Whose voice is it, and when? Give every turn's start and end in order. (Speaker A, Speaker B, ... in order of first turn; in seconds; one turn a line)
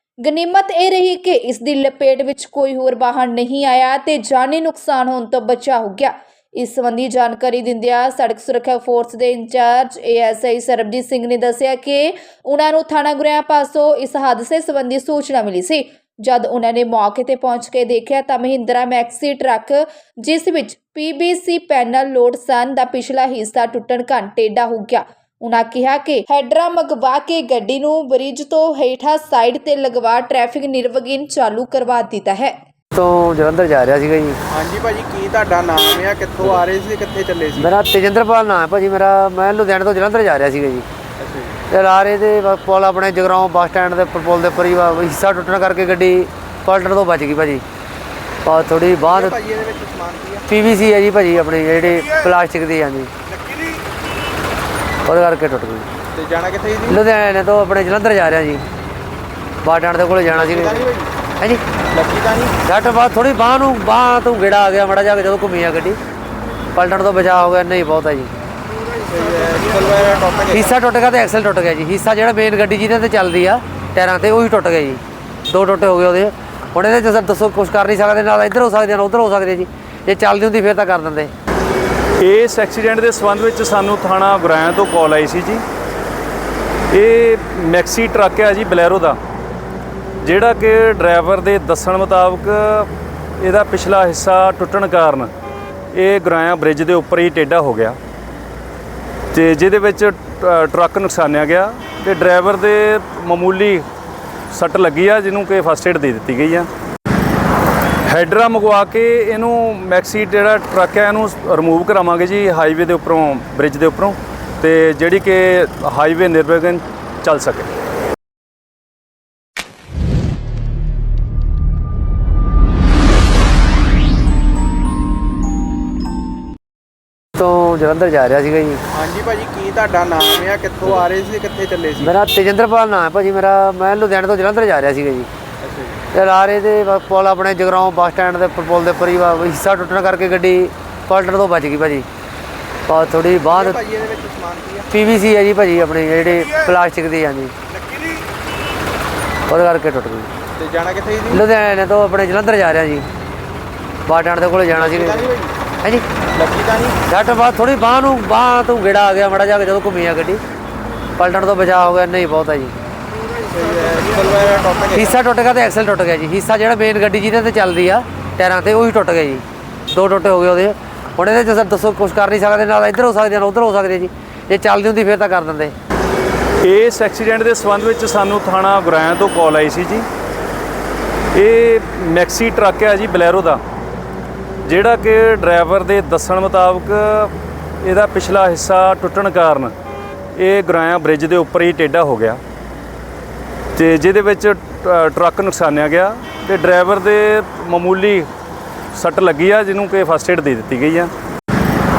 Speaker A: 0.2-32.6
Speaker B: 33.0-34.4
Speaker C: 34.5-37.7
Speaker B: 37.6-40.9
Speaker C: 41.2-41.5
Speaker B: 41.7-47.6
Speaker B: 48.5-49.4
Speaker C: 49.0-50.5
Speaker B: 50.5-53.1
Speaker B: 55.1-55.9
Speaker C: 56.1-57.0
Speaker B: 56.9-58.6
Speaker B: 59.6-60.9
Speaker C: 60.3-61.1
Speaker C: 61.9-62.6
Speaker B: 62.6-66.0
Speaker B: 66.7-68.3
Speaker C: 69.0-70.7
Speaker B: 70.5-81.3
Speaker D: 82.2-85.6
Speaker D: 86.9-89.2
Speaker D: 90.2-95.3
Speaker D: 95.9-98.0
Speaker D: 99.3-103.8
Speaker D: 104.5-106.7
Speaker D: 108.1-117.7
Speaker B: 127.4-128.8
Speaker C: 128.9-132.2
Speaker B: 132.0-135.3
Speaker C: 135.6-136.0
Speaker B: 136.1-142.1
Speaker B: 142.9-143.8
Speaker C: 143.4-144.9
Speaker B: 144.9-147.5
Speaker B: 149.5-150.3
Speaker C: 150.6-151.4
Speaker B: 151.3-153.1
Speaker B: 154.1-155.3
Speaker C: 154.7-155.5
Speaker C: 156.3-157.0
Speaker B: 157.1-160.4
Speaker B: 161.2-162.8
Speaker C: 163.4-165.1
Speaker B: 164.9-175.7
Speaker D: 176.6-180.1
Speaker D: 181.3-183.6
Speaker D: 184.6-189.7
Speaker D: 190.4-192.4
Speaker D: 193.8-198.3
Speaker D: 198.9-201.1